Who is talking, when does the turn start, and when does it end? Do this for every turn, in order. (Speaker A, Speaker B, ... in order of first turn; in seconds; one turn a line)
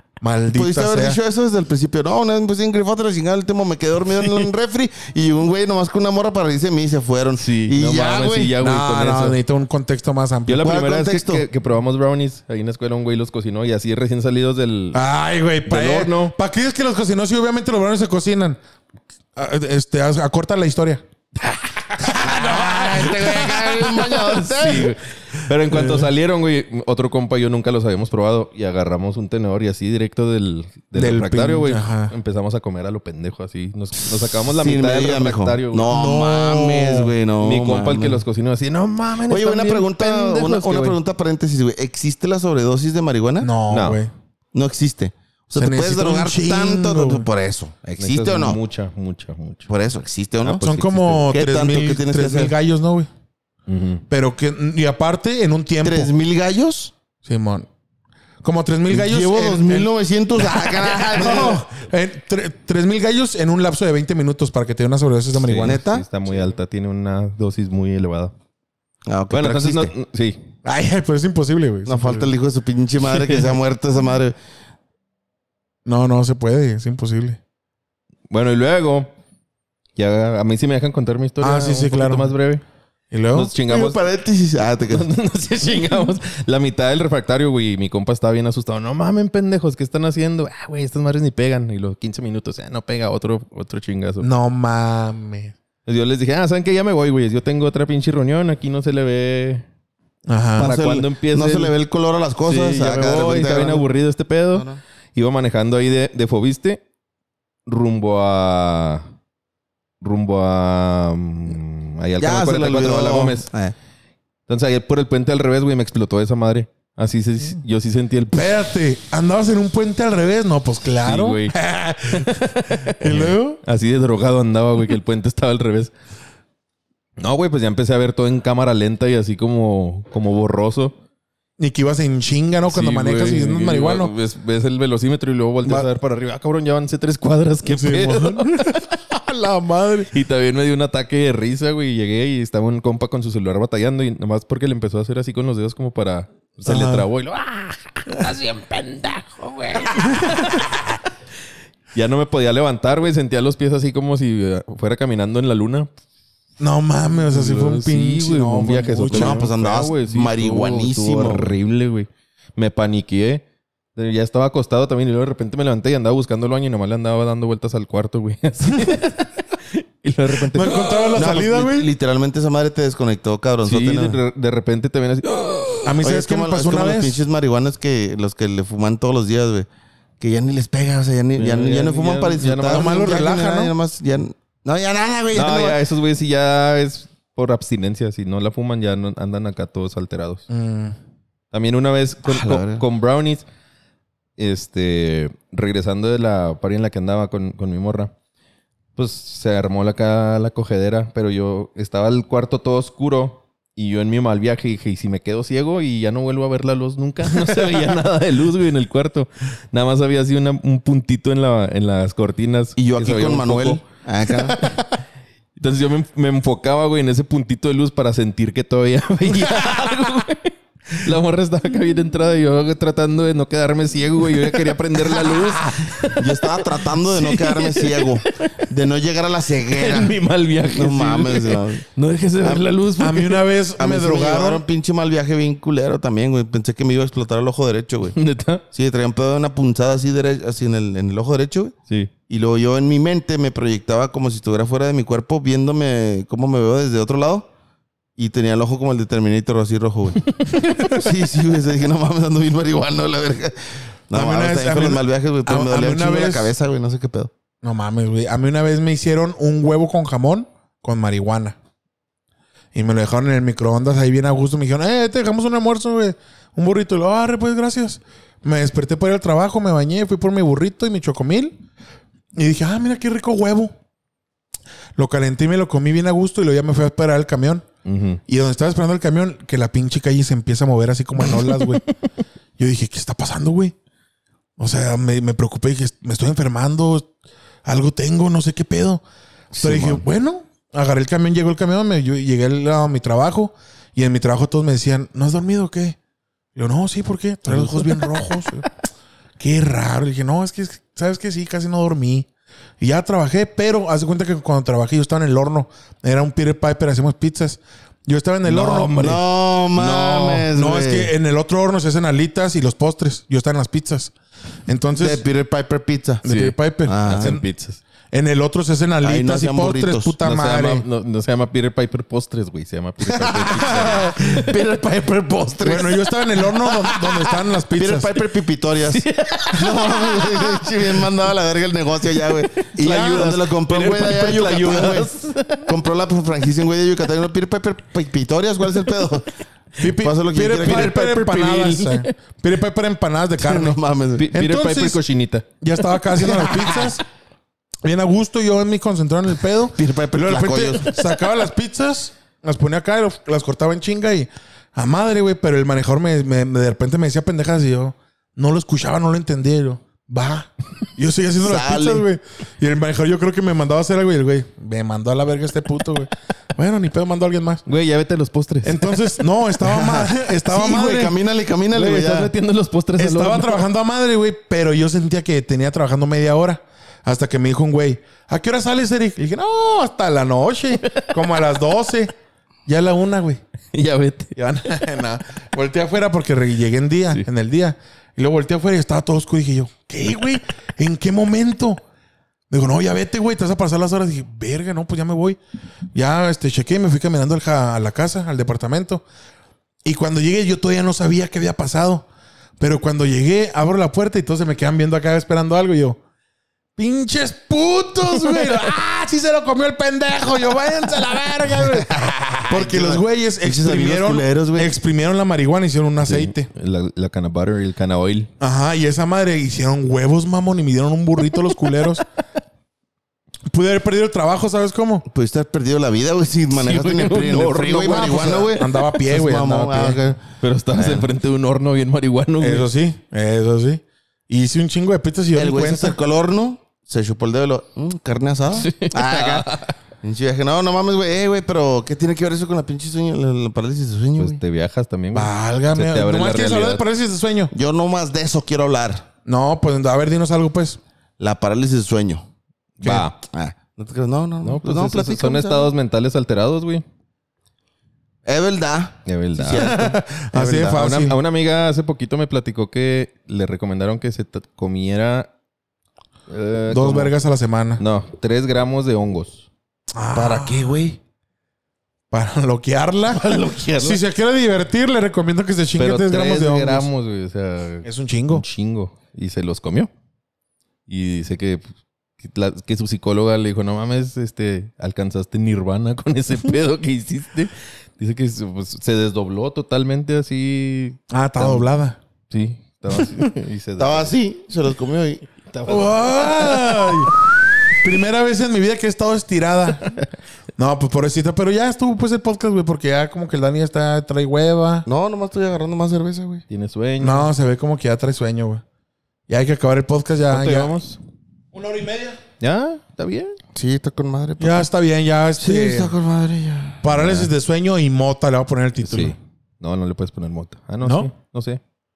Speaker A: 0.2-1.2
Speaker B: 0.5-8.6
Speaker C: 7.4-9.4
Speaker A: 8.6-10.7
Speaker C: 10.5-15.0
Speaker B: 10.6-11.5
Speaker A: 14.9-18.6
Speaker C: 15.7-16.3
Speaker A: 19.4-21.0
Speaker A: 22.0-23.6
Speaker B: 22.0-24.9
Speaker C: 23.4-35.9
Speaker A: 25.7-26.1
Speaker A: 30.9-32.1
Speaker B: 34.5-38.2
Speaker A: 35.9-37.1
Speaker C: 37.4-41.0
Speaker B: 39.3-43.5
Speaker A: 43.4-44.1
Speaker C: 43.7-44.0
Speaker B: 44.5-48.6
Speaker A: 45.6-47.3
Speaker C: 48.0-49.7
Speaker B: 49.7-52.5
Speaker C: 50.4-51.3
Speaker A: 50.6-53.1
Speaker C: 53.7-54.0
Speaker A: 54.1-56.1
Speaker B: 55.8-56.9
Speaker A: 57.2-57.7
Speaker A: 58.4-65.8
Speaker B: 58.9-61.6
Speaker C: 65.5-68.3
Speaker B: 65.6-66.0
Speaker B: 69.1-69.9
Speaker C: 69.3-70.4
Speaker A: 70.7-72.3
Speaker B: 71.9-74.3
Speaker C: 73.1-73.5
Speaker A: 75.8-77.4
Speaker C: 78.3-79.1
Speaker C: 80.0-82.6
Speaker A: 81.4-82.3
Speaker A: 83.1-83.5
Speaker C: 83.3-84.0
Speaker B: 83.7-85.1
Speaker C: 84.9-94.3
Speaker A: 94.2-95.5
Speaker C: 95.9-99.7
Speaker A: 100.3-100.7
Speaker C: 100.6-101.7
Speaker B: 100.6-103.8
Speaker C: 102.5-106.8
Speaker B: 104.5-104.8
Speaker C: 107.7-109.1
Speaker C: 110.0-113.5
Speaker B: 112.2-113.7
Speaker C: 114.5-118.6
Speaker A: 118.3-123.6
Speaker C: 121.0-125.9
Speaker C: 127.2-130.9
Speaker A: 131.6-134.1
Speaker C: 132.7-138.8
Speaker A: 137.7-140.1
Speaker C: 140.1-150.7
Speaker A: 146.7-147.1
Speaker A: 150.0-150.7
Speaker C: 151.9-155.9
Speaker A: 156.6-159.5
Speaker C: 157.2-163.4
Speaker B: 159.1-161.5
Speaker C: 164.0-171.3
Speaker A: 170.5-171.9
Speaker B: 171.2-174.2
Speaker C: 173.6-175.9
Speaker A: 175.8-177.2
Speaker B: 176.0-179.7
Speaker B: 180.2-185.8
Speaker C: 181.4-183.1
Speaker A: 182.7-183.7
Speaker C: 185.3-190.5
Speaker A: 190.5-190.9
Speaker C: 191.5-193.4
Speaker B: 192.2-192.8
Speaker C: 194.4-198.1
Speaker C: 199.0-213.8
Speaker A: 207.5-207.8
Speaker B: 212.8-214.6
Speaker C: 215.6-228.5
Speaker B: 226.1-230.2
Speaker C: 229.7-233.4
Speaker B: 230.7-231.8
Speaker B: 232.4-232.7
Speaker A: 233.0-234.6
Speaker B: 233.8-238.2
Speaker C: 238.2-238.6
Speaker B: 238.7-241.8
Speaker B: 242.3-247.5
Speaker B: 248.2-250.3
Speaker B: 250.9-253.6
Speaker B: 254.1-257.3
Speaker A: 254.1-256.5
Speaker A: 257.6-261.6
Speaker A: 262.7-271.6
Speaker A: 272.4-273.7
Speaker A: 275.0-277.7
Speaker C: 277.9-278.2
Speaker A: 278.3-281.8
Speaker C: 281.2-281.9
Speaker A: 282.6-283.8
Speaker A: 284.6-287.1
Speaker A: 287.6-289.0
Speaker B: 289.5-290.1
Speaker A: 289.6-296.0
Speaker A: 296.6-298.7
Speaker A: 299.4-302.3
Speaker A: 302.8-309.0
Speaker C: 308.4-310.5
Speaker B: 308.9-311.1
Speaker A: 310.6-314.1
Speaker A: 314.7-315.2
Speaker B: 315.0-316.2
Speaker A: 316.2-317.4
Speaker C: 316.2-317.8
Speaker B: 316.9-317.3
Speaker A: 318.1-320.8
Speaker B: 319.0-320.1
Speaker C: 320.2-325.8
Speaker B: 323.0-325.9
Speaker A: 325.6-328.1
Speaker B: 327.8-335.1
Speaker C: 328.8-331.1
Speaker A: 332.8-334.1
Speaker C: 333.7-335.7
Speaker B: 335.6-341.1
Speaker A: 339.8-343.8
Speaker C: 340.6-342.1
Speaker B: 343.4-344.3
Speaker C: 344.2-345.5
Speaker A: 344.3-345.0
Speaker A: 345.6-347.0
Speaker B: 346.2-346.8
Speaker A: 347.8-367.6
Speaker B: 349.7-350.9
Speaker B: 361.4-362.1
Speaker C: 367.7-369.1
Speaker A: 368.6-371.1
Speaker B: 369.6-372.3
Speaker C: 371.7-373.7
Speaker A: 373.0-382.1
Speaker A: 382.7-383.4
Speaker C: 383.7-384.4
Speaker A: 384.4-391.8
Speaker A: 392.5-395.4
Speaker A: 395.9-399.0
Speaker A: 399.9-402.1
Speaker A: 402.6-406.0
Speaker A: 406.8-416.5
Speaker C: 408.3-408.6
Speaker B: 411.6-414.7
Speaker C: 416.0-418.3
Speaker A: 418.4-422.0
Speaker C: 421.4-421.9
Speaker A: 423.5-425.1
Speaker B: 425.1-431.1
Speaker C: 426.5-428.6
Speaker A: 427.9-430.0
Speaker C: 430.4-432.7
Speaker A: 432.4-436.0
Speaker B: 435.3-439.5
Speaker C: 438.6-439.7
Speaker B: 440.0-444.4
Speaker C: 444.2-446.8
Speaker A: 445.1-447.5
Speaker B: 447.5-449.1
Speaker A: 449.2-450.8
Speaker B: 451.2-452.2
Speaker C: 452.8-453.2
Speaker A: 452.8-453.1
Speaker B: 453.2-455.7
Speaker C: 454.4-456.8
Speaker B: 458.3-460.8
Speaker C: 459.1-459.7
Speaker A: 459.5-461.2
Speaker C: 460.4-465.3
Speaker C: 466.3-467.1
Speaker A: 466.7-467.8
Speaker C: 467.8-469.5
Speaker A: 469.9-470.8
Speaker B: 470.1-471.0
Speaker A: 472.1-476.9
Speaker C: 473.1-474.0
Speaker C: 475.8-479.9
Speaker A: 477.9-478.4
Speaker C: 480.9-481.6
Speaker C: 482.2-491.7
Speaker A: 491.1-492.0
Speaker C: 492.3-494.1
Speaker B: 493.8-495.2
Speaker C: 495.5-497.1
Speaker A: 495.7-497.1
Speaker A: 497.8-500.0
Speaker A: 500.6-504.9
Speaker B: 504.9-506.4
Speaker C: 506.5-507.3
Speaker A: 507.0-508.6
Speaker A: 509.3-510.7
Speaker C: 510.3-511.0
Speaker A: 511.5-512.2
Speaker C: 512.4-513.4
Speaker B: 513.5-514.7
Speaker A: 514.4-515.9
Speaker B: 515.4-516.9
Speaker A: 516.8-519.2
Speaker C: 517.0-517.3
Speaker C: 518.8-521.6
Speaker A: 520.8-521.1